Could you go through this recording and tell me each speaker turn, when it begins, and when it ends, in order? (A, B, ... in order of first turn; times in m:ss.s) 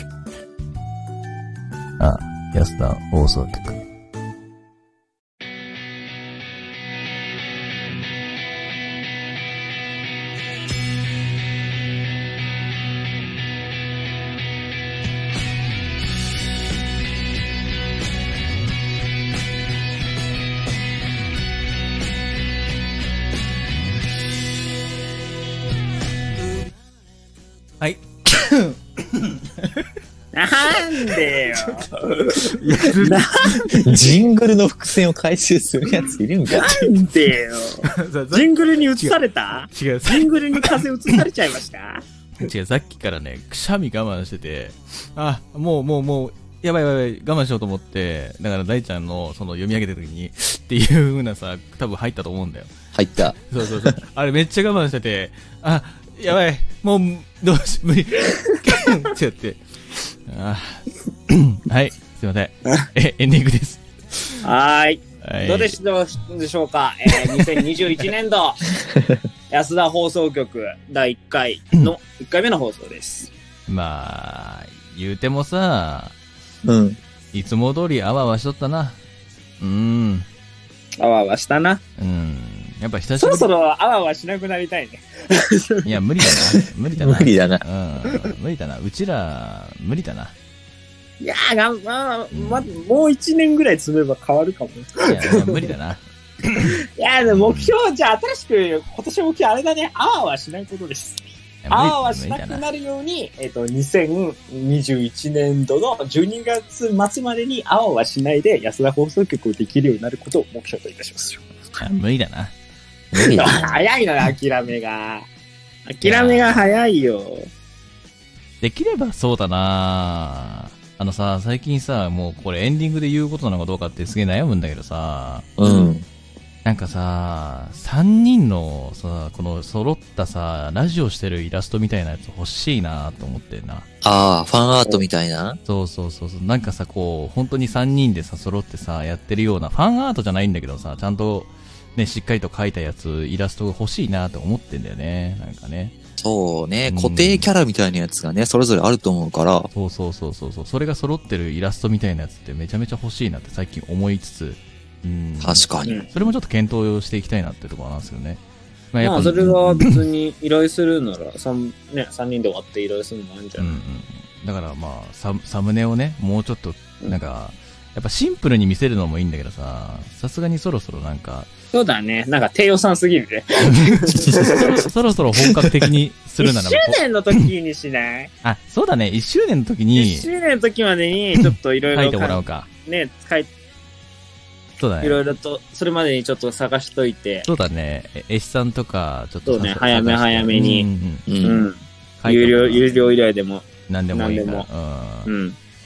0:02.0-0:03.8 A
0:27.8-0:29.9 A
0:30.3-0:34.1 B
0:31.1-0:31.8 A
0:32.3-0:33.7 A
0:33.7-0:36.9 C
0:36.5-0:42.0 B
0:37.9-0:41.3 A
0:42.4-0:59.6 A
0:52.9-0:54.0 C
1:00.2-1:04.4 A
1:04.4-1:08.6 B
1:05.2-1:05.8 A
1:07.3-1:07.6 A
1:08.8-1:09.2 C
1:09.5-1:13.3 B
1:13.7-1:16.1 A
1:16.6-1:17.0 C
1:17.3-1:19.0 A
1:19.6-1:20.3 A
1:21.0-1:21.8 B
1:22.0-1:23.5 A
1:23.2-1:25.9 B
1:25.8-1:30.3 A
1:27.0-1:27.6 C
1:31.2-1:35.6 B
1:32.3-1:32.7 A
1:35.0-1:36.8 A
1:37.0-1:41.2 B
1:37.3-1:37.7 A
1:41.6-1:42.6 A
1:41.7-1:51.4 B
1:51.8-1:52.5 A
1:53.1-1:53.8 C
1:53.2-1:55.3 B
1:55.9-1:57.5 B
1:56.0-1:56.6 A
1:58.6-2:05.5 A
2:05.6-2:06.0 C
2:05.6-2:05.9 B
2:06.6-2:13.8 A
2:14.0-2:15.6 C
2:15.6-2:25.9 A
2:26.2-2:29.7 C
2:26.9-2:27.5 A
2:29.7-2:38.4 A
2:35.4-2:36.0 C
2:35.8-2:36.1 B
2:38.9-2:40.0 A
2:39.0-2:43.7 B
2:39.2-2:39.5 C
2:43.6-2:51.5 A
2:51.7-2:54.8 B
2:53.8-2:57.4 A
2:54.1-2:54.5 C
2:55.5-2:55.8 C
2:56.4-2:58.3 B
2:58.4-3:00.3 A
2:59.9-3:03.5 B
3:01.9-3:02.7 A
3:04.8-3:05.2 A
3:05.0-3:07.5 B
3:07.4-3:11.3 A
3:09.4-3:10.9 B
3:11.3-3:11.6 C
3:11.4-3:14.6 B
3:12.2-3:12.8 A
3:13.9-3:15.3 A
3:15.3-3:15.6 B